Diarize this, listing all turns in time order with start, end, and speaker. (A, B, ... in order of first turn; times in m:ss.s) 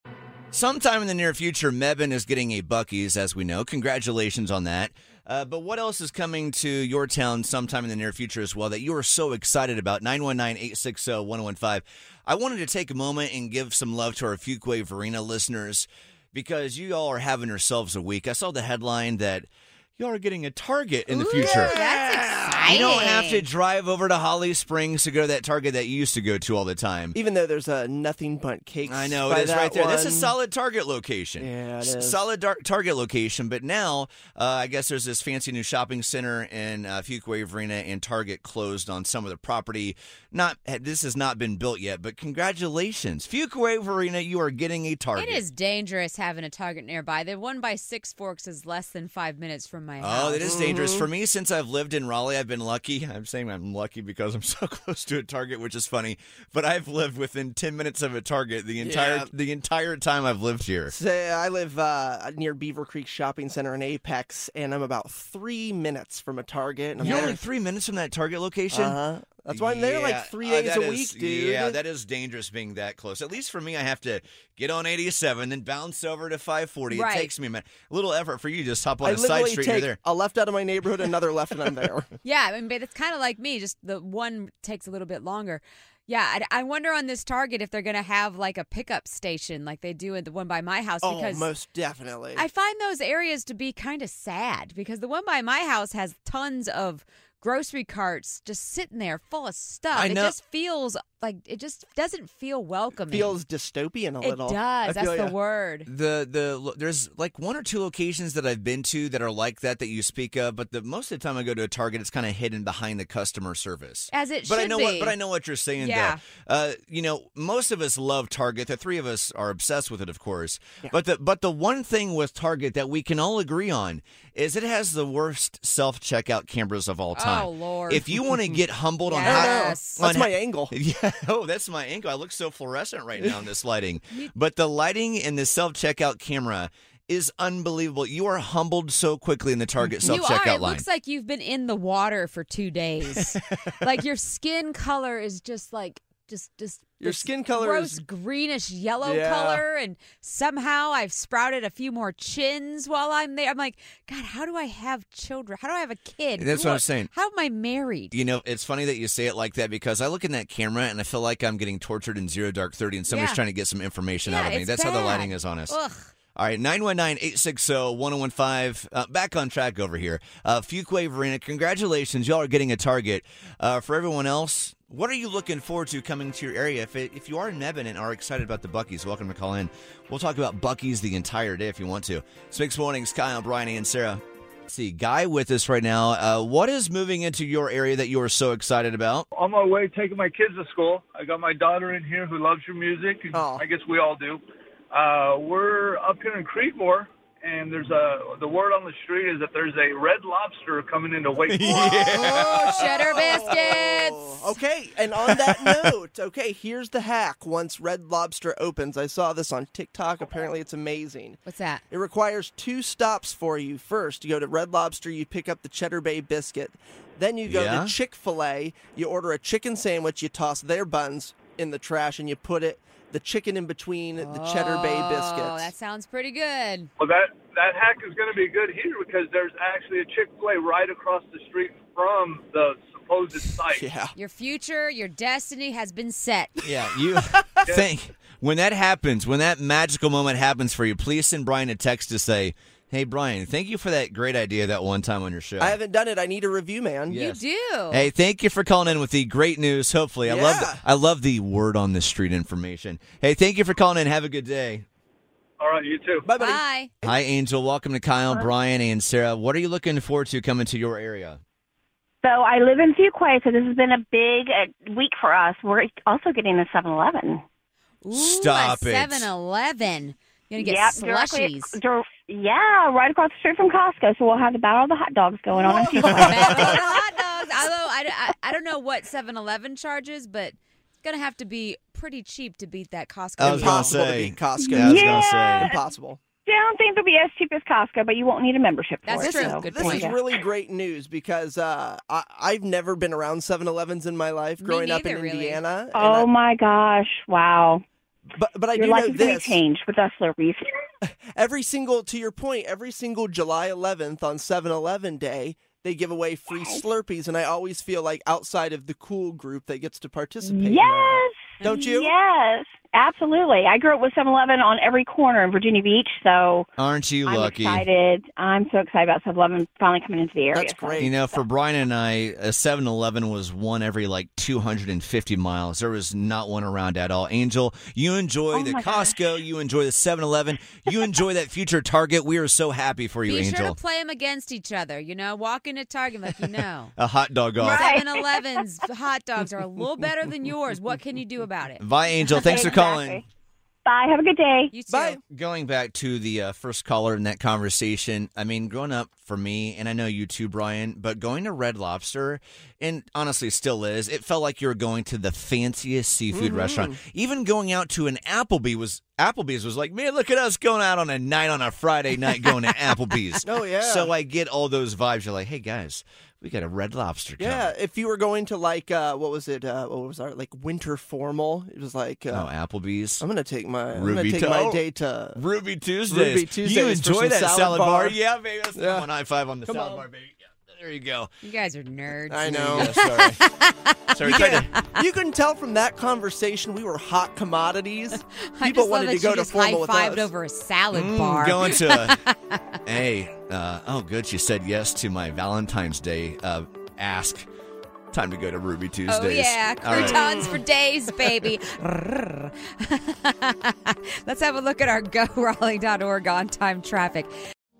0:00.5-0:27.2 A
0:21.1-0:23.4 B
0:21.4-0:21.9 C
0:27.1-0:30.3 C
0:28.9-0:45.4 A
0:31.4-0:32.2 C
0:45.1-0:50.6 B
0:50.0-1:00.9 A
0:50.4-0:51.1 C
0:58.8-0:59.3 C
1:00.9-1:07.4 C
1:07.0-1:09.0 A
1:07.0-1:07.3 B
1:08.7-1:11.8 C
1:09.5-1:20.0 A
1:16.9-1:17.3 B
1:19.0-1:22.1 C
1:22.2-1:31.5 B
1:31.0-1:32.4 C
1:32.3-1:43.4 B
1:39.9-1:40.4 A
1:43.1-1:45.3 C
1:44.2-1:45.9 B
1:45.8-2:20.8 A
1:54.1-1:55.2 B
1:55.8-1:56.2 B
2:07.1-2:08.4 B
2:09.0-2:10.0 B
2:09.2-2:10.7 C
2:13.2-2:13.4 C
2:20.0-2:38.2 B
2:27.0-2:28.0 C
2:29.0-2:29.6 C
2:36.4-2:37.1 A
2:38.1-2:45.8 A
2:43.1-2:43.4 B
2:44.2-2:46.1 B
2:46.3-3:09.3 A
3:09.3-3:22.4 D
3:13.3-3:13.6 C
3:21.5-3:22.9 A
3:22.1-3:45.7 C
3:22.2-3:24.5 B
3:25.2-3:25.9 A
3:31.4-3:31.8 B
3:37.4-3:37.9 A
3:44.2-3:46.9 B
3:47.0-3:53.8 D
3:53.7-3:54.1 C
3:54.2-3:56.7 B
3:56.6-4:05.8 A
3:57.4-3:57.6 C
4:05.6-4:07.2 C
4:07.1-4:14.8 A
4:07.1-4:08.1 B
4:10.2-4:10.8 C
4:15.6-4:16.3 D
4:16.2-4:17.2 C
4:16.4-4:16.9 B
4:17.0-4:21.4 A
4:22.2-4:27.4 E
4:28.0-4:31.8 B
4:28.1-4:29.3 A
4:30.6-4:36.9 E
4:35.7-4:36.7 C
4:36.0-4:44.0 B
4:43.4-4:45.7 A
4:43.4-4:46.2 C
4:44.6-4:45.8 E
4:46.4-4:50.2 E
4:49.0-4:50.1 B
4:49.2-4:56.3 C
4:54.6-4:55.6 B
4:55.9-4:57.8 E
4:58.3-4:59.6 C
4:58.7-5:00.8 E
5:01.0-5:12.1 C
5:06.6-5:06.8 E
5:10.4-5:16.7 E
5:16.8-5:17.8 A
5:17.2-5:21.0 E
5:20.5-5:21.2 C
5:21.0-5:33.8 A
5:28.5-5:29.3 E
5:33.2-5:36.9 B
5:37.0-5:37.9 A
5:37.6-5:41.8 B
5:37.6-5:38.4 E
5:41.8-5:43.2 A
5:42.2-5:43.2 E
5:43.8-5:44.7 E
5:44.7-5:45.2 B
5:44.9-5:45.2 C
5:45.2-6:07.7 A
5:56.3-5:57.0 C
6:03.4-6:04.1 C
6:07.4-6:12.5 C
6:12.3-6:13.2 A
6:13.2-6:15.4 C
6:13.9-6:14.8 A
6:15.4-6:21.3 A
6:16.1-6:18.2 C
6:18.7-6:19.1 C
6:19.6-6:20.0 C
6:21.4-6:25.0 B
6:22.3-6:23.4 C
6:22.7-6:23.4 A
6:24.1-6:24.7 A
6:24.2-6:30.3 C
6:28.1-6:32.6 B
6:30.9-6:32.2 A
6:32.8-6:37.5 A
6:38.1-6:40.4 A
6:39.1-6:47.3 B